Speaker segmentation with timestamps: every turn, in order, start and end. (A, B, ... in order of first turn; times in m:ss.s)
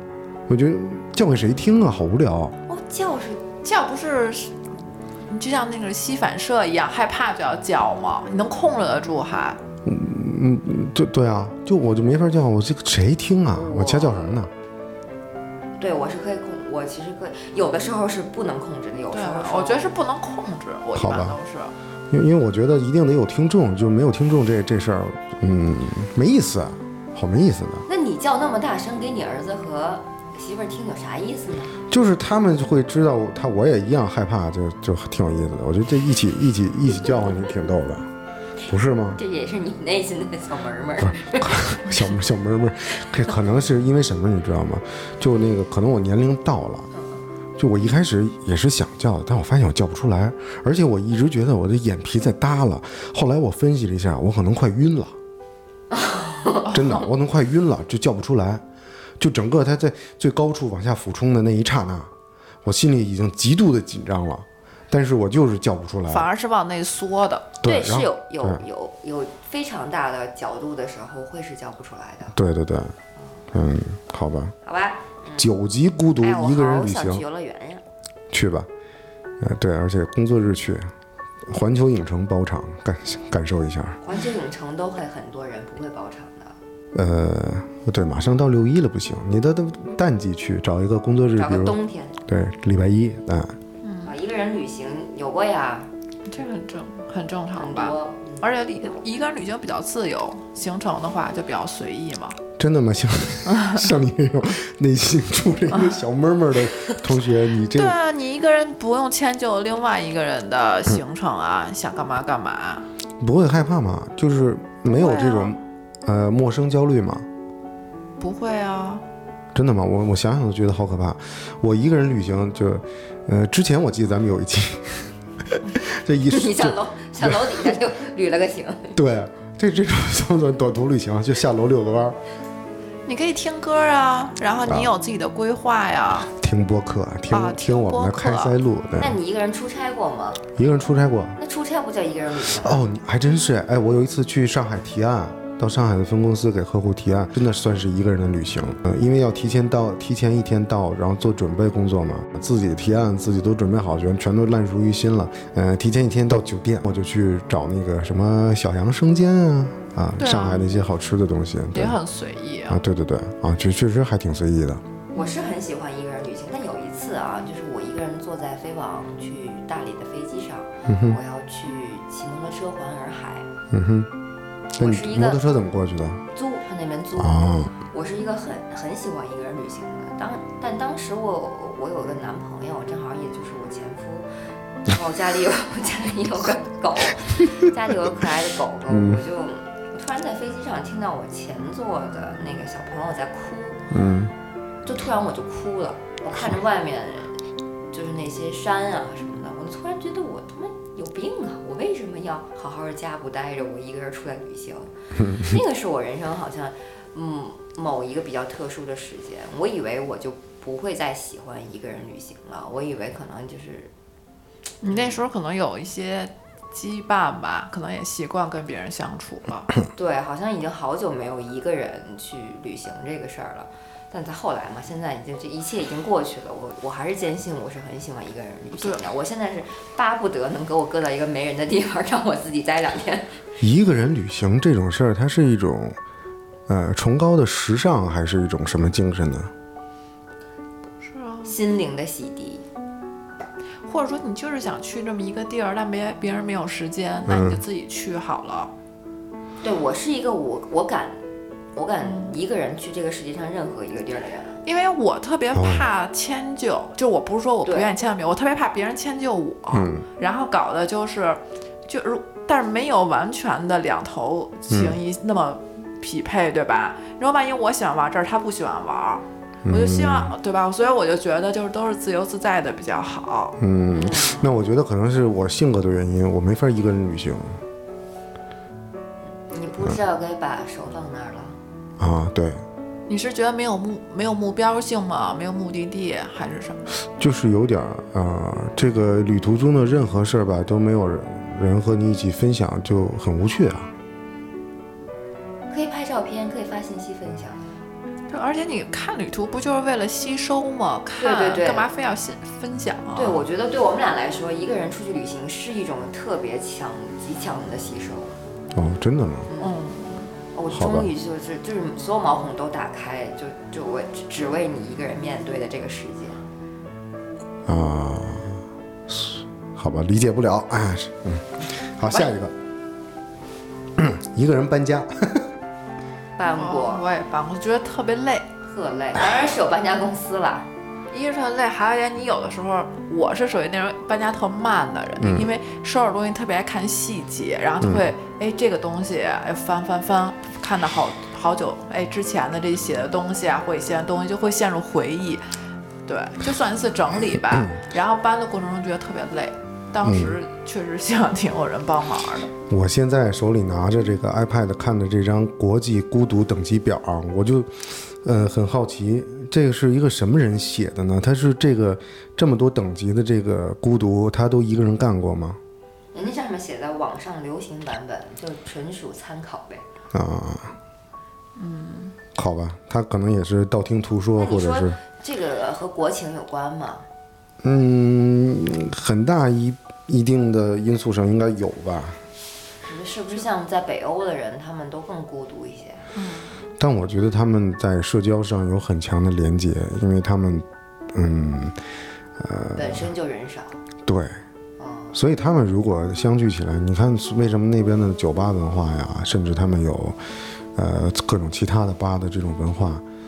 0:00.5-0:02.6 A
0:02.7-0:03.4 B
0:03.6-0:04.6 C
0:05.3-0:09.6 C
0:09.8-0:14.5 A
0:13.5-0:14.4 B
0:15.8-0:19.9 B
0:19.1-0:21.7 C
0:21.0-0:21.4 A
0:22.1-0:27.9 A
0:27.9-0:31.8 B
0:31.9-0:38.1 A
0:38.7-0:39.2 A
0:39.2-0:41.8 B
0:41.0-0:46.9 A
0:47.6-0:55.2 A
0:55.9-0:56.7 B
0:56.7-0:58.6 A
0:59.2-1:02.1 A
1:02.6-1:06.3 A
1:06.1-1:07.5 C
1:07.6-1:08.6 A
1:07.6-1:12.4 B
1:12.3-1:12.9 A
1:13.5-1:14.6 A
1:14.6-1:15.5 B
1:15.4-1:17.2 A
1:16.2-1:17.8 B
1:18.3-1:18.7 A
1:19.4-1:20.9 A
1:21.5-1:24.0 A
1:24.0-1:26.6 B
1:26.9-1:33.6 A
1:31.4-1:32.2 B
1:33.8-1:34.1 C
1:34.0-1:35.9 B
1:36.3-1:42.4 C
1:37.6-1:38.5 B
1:42.6-1:48.0 A
1:43.5-1:43.8 C
1:47.7-1:52.9 C
1:53.2-1:57.3 A
1:54.9-1:55.6 C
1:58.2-1:59.0 C
1:59.5-2:07.8 A
2:06.3-2:09.0 B
2:09.0-2:12.2 A
2:13.1-2:16.3 C
2:14.7-2:14.9 A
2:16.3-2:19.2 A
2:17.3-2:18.6 C
2:19.0-2:20.5 B
2:20.6-2:21.4 A
2:21.4-2:22.8 B
2:22.6-2:42.0 A
2:40.2-2:40.7 C
2:41.7-2:42.8 C
2:42.7-2:44.8 A
2:45.1-2:53.5 B
2:50.9-2:51.2 A
2:53.7-2:54.1 A
2:54.8-2:55.4 B
2:54.8-2:56.2 A
2:56.3-3:04.3 B
2:57.2-2:57.7 A
3:04.8-3:13.9 B
3:08.9-3:09.2 A
3:13.9-3:14.3 A
3:14.8-3:17.4 B
3:17.9-3:33.9 B
3:25.2-3:25.5 A
3:34.8-3:39.7 C
3:34.8-3:35.2 B
3:39.9-3:53.4 B
3:53.6-3:56.0 A
3:56.7-3:59.5 A
4:01.0-4:01.6 C
4:01.4-4:02.6 B
4:03.9-4:08.7 C
4:07.3-4:07.6 A
4:09.6-4:11.2 B
4:11.8-4:14.6 B
4:12.0-4:12.4 C
4:14.6-4:33.6 C
4:15.5-4:15.9 A
4:17.6-4:17.9 B
4:19.7-4:20.1 A
4:24.7-4:25.0 A
4:29.6-4:30.3 A
4:33.6-4:37.6 A
4:33.9-4:34.5 B
4:39.5-4:41.6 B
4:42.0-4:42.6 A
4:43.1-4:46.9 C
4:47.2-4:53.9 A
4:55.7-4:57.8 B
4:58.3-5:03.4 C
5:01.2-5:01.9 B
5:03.2-5:08.4 B
5:08.7-5:09.5 A
5:09.5-5:09.8 B
5:09.6-5:10.3 C
5:10.5-5:16.4 B
5:10.7-5:11.1 A
5:17.7-5:22.5 A
5:24.0-5:25.5 A
5:26.4-5:27.0 B
5:26.6-5:28.5 C
5:28.7-5:30.7 B
5:31.1-5:45.5 C
5:35.2-5:35.5 A
5:37.8-5:38.1 A
5:46.1-5:52.5 C
5:47.5-5:47.8 A
5:50.0-5:50.4 A
5:52.7-6:05.6 A
6:06.1-6:09.8 B
6:10.1-6:10.7 A
6:11.6-6:12.2 C
6:12.4-6:15.0 A
6:14.4-6:17.1 B
6:17.6-6:22.2 A
6:22.8-6:26.1 B
6:26.2-6:26.6 C
6:26.8-6:31.8 A
6:32.4-6:33.1 A
6:32.8-6:33.8 B
6:34.1-6:34.4 A
6:34.8-6:35.2 B
6:35.1-6:40.2 A
6:40.8-6:43.0 A